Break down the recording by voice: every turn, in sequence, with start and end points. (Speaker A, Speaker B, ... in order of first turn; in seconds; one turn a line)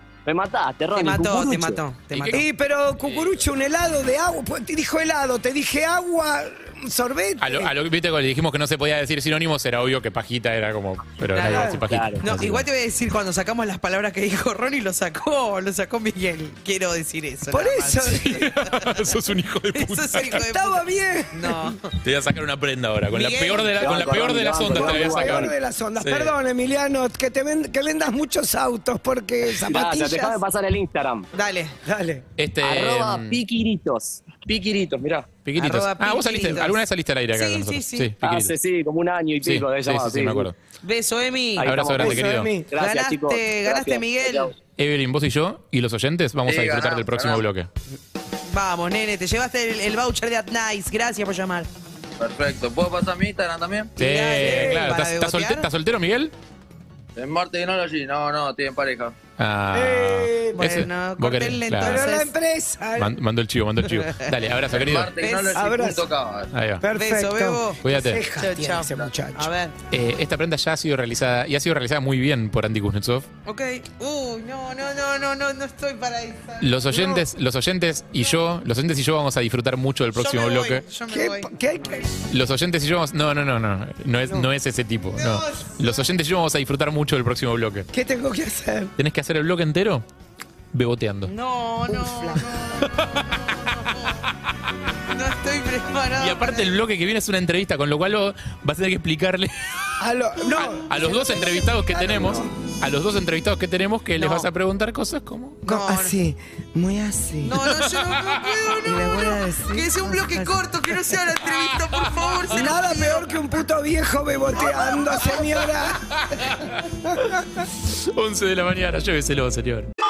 Speaker A: 0.2-1.8
Speaker B: 0.9-2.4
Speaker C: 2.1-2.4
Speaker D: 2.3-7.7
Speaker C: 3.0-3.4
Speaker C: 7.4-12.6
Speaker B: 11.3-18.9
Speaker D: 11.5-11.8
Speaker A: 11.9-12.3
Speaker D: 17.5-18.4
Speaker C: 18.2-20.4
Speaker B: 19.7-21.9
Speaker D: 20.4-21.8
Speaker C: 22.0-26.4
Speaker B: 23.1-24.1
Speaker A: 23.8-25.5
Speaker D: 24.7-30.4
Speaker A: 29.5-31.3
Speaker B: 31.3-31.8
Speaker D: 31.8-32.2
Speaker C: 32.4-33.4
Speaker A: 32.6-35.3
Speaker C: 35.4-38.5
Speaker B: 35.5-38.1
Speaker A: 38.2-40.5
Speaker C: 39.4-40.5
Speaker B: 40.8-41.9
Speaker A: 41.6-44.5
Speaker C: 41.6-42.5
Speaker D: 42.0-42.7
Speaker B: 42.7-44.5
Speaker C: 44.8-47.7
Speaker E: 46.4-47.4
Speaker B: 48.5-51.7
Speaker E: 52.2-53.9
Speaker B: 54.0-55.7
Speaker C: 54.0-56.3
Speaker E: 57.1-59.1
Speaker C: 59.4-62.0
Speaker D: 59.7-60.8
Speaker B: 60.6-62.3
Speaker D: 61.8-63.1
Speaker C: 63.0-65.1
Speaker B: 64.0-64.2
Speaker E: 64.7-66.5
Speaker B: 65.2-65.6
Speaker D: 65.5-66.0
Speaker C: 66.5-66.8
Speaker D: 66.8-69.5
Speaker B: 66.9-67.8
Speaker C: 67.8-68.2
Speaker B: 68.4-69.7
Speaker C: 69.9-73.3
Speaker B: 73.5-76.9
Speaker C: 76.6-80.8
Speaker D: 76.9-77.2
Speaker B: 80.2-81.5
Speaker D: 81.1-82.1
Speaker C: 82.3-87.9
Speaker B: 85.2-85.9
Speaker D: 87.9-88.9
Speaker C: 89.0-90.0
Speaker C: 90.7-91.3
Speaker B: 91.2-92.9
Speaker D: 91.9-92.6
Speaker B: 93.5-94.3
Speaker B: 95.1-96.8
Speaker C: 96.2-100.0
Speaker D: 100.0-102.5
Speaker C: 100.5-105.6
Speaker B: 104.2-104.5
Speaker B: 105.6-106.1
Speaker D: 105.7-107.6
Speaker B: 107.4-113.3
Speaker C: 108.0-108.6
Speaker D: 108.8-110.9
Speaker C: 111.5-112.3
Speaker D: 112.5-116.5
Speaker C: 116.1-117.3
Speaker D: 117.0-117.3
Speaker C: 117.8-119.9